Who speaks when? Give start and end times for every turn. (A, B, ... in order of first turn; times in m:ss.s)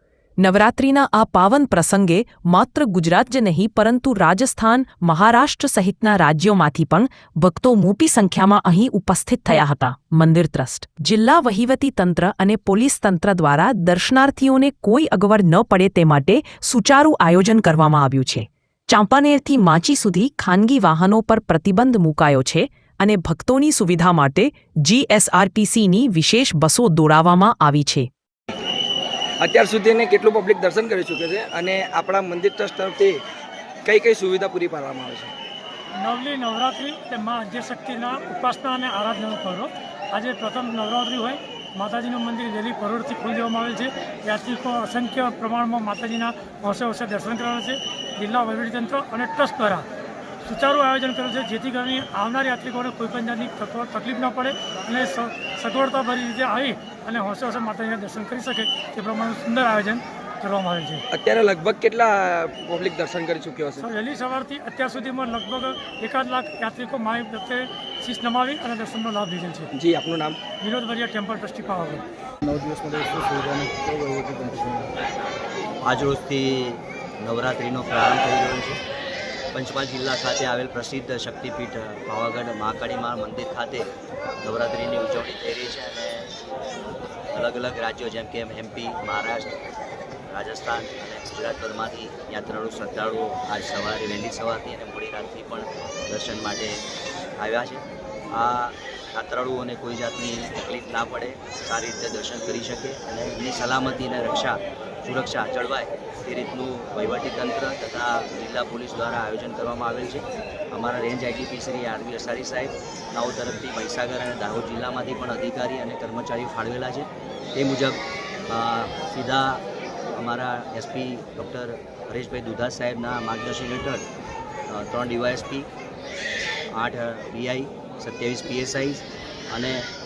0:00.4-0:28.1 A
0:29.4-0:33.2 B
0:33.8-0:35.3 B
0:36.0-0:49.8 C
0:50.4-1:01.0 C
1:01.1-1:03.8 B
1:03.8-1:09.7 C
1:09.7-1:10.4 B
1:10.6-1:12.0 C
1:12.4-1:14.9 D
1:15.8-1:18.8 E
1:19.5-1:23.9 E
1:24.4-1:26.3 E
1:27.3-1:29.5 E
1:30.3-1:36.8 E
1:37.4-1:59.6 E
2:00.1-2:04.0 E
2:04.7-2:05.7 E
2:06.7-2:09.8 E